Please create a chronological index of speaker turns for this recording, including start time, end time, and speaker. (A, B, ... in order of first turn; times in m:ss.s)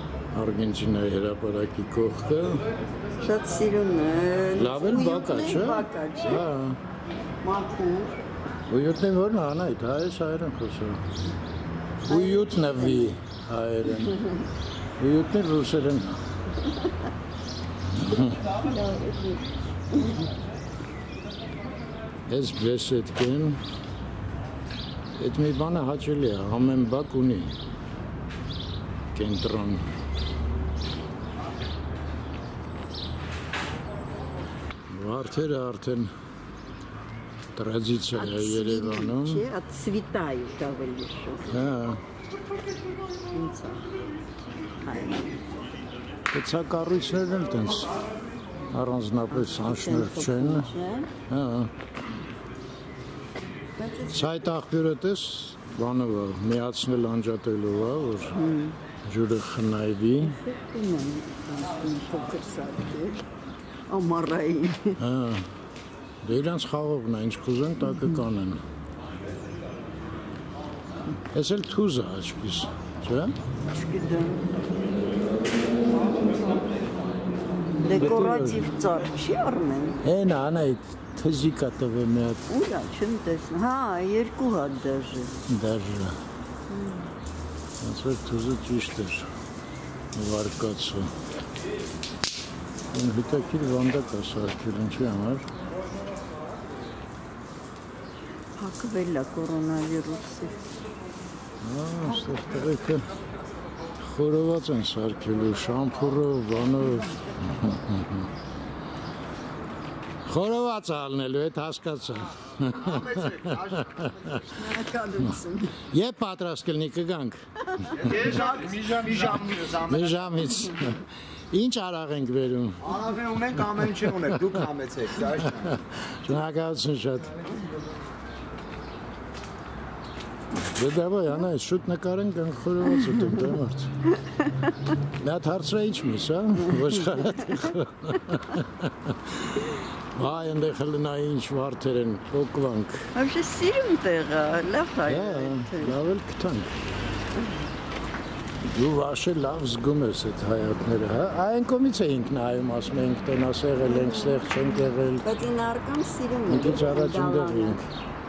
0:00.3-0:02.6 A
0:03.2-0:06.4 B
0:04.6-0:06.8 A
0:07.4-0:08.2 B
0:08.7-0:11.0 A
0:12.0-0:14.2 A
0:12.1-0:13.1 B
0:15.0-0:16.2 A
0:17.9-0:18.5 A
0:18.6-0:19.4 B
0:22.3-0:23.6 A
0:25.2-0:27.5 A
0:29.1-0:29.8 A
0:34.9-0:36.1 A
0:37.5-0:39.4 A
0:38.1-0:41.6 B
0:41.5-0:42.0 A
0:43.3-0:43.9 B
0:44.8-0:45.4 B
0:46.3-0:47.9 A
0:48.7-0:50.7 A
0:49.3-0:51.1 B
0:51.3-0:51.7 A
0:53.8-0:54.4 B
0:54.1-0:58.3 A
0:58.3-0:58.8 B
0:59.0-1:00.4 A
1:00.2-1:03.2 B
1:03.9-1:05.0 B
1:05.0-1:05.4 A
1:06.2-1:08.6 A
1:11.3-1:13.3 A
1:13.7-1:14.4 B
1:17.8-1:20.0 B
1:17.8-1:18.7 A
1:20.0-1:22.4 A
1:22.5-1:25.3 B
1:25.5-1:26.1 A
1:26.7-1:27.1 B
1:27.8-1:29.3 A
1:30.1-1:31.1 A
1:32.9-1:35.5 A
1:38.6-1:40.6 B
1:41.6-1:43.0 A
1:44.0-1:48.3 A
1:50.2-1:54.4 A
1:52.8-1:53.9 C
1:54.3-1:55.8 B
1:55.9-1:58.3 A
1:57.9-2:00.1 C
1:58.2-1:59.0 B
1:59.2-2:03.0 A
2:02.8-2:05.7 C
2:04.0-2:04.7 A
2:05.4-2:07.5 A
2:10.5-2:13.9 A
2:15.2-2:23.0 A
2:17.2-2:17.7 B
2:23.1-2:26.0 B
2:25.1-2:26.7 A
2:28.6-2:35.2 A
2:33.9-2:34.5 B
2:35.2-2:37.8 B
2:36.5-2:37.8 A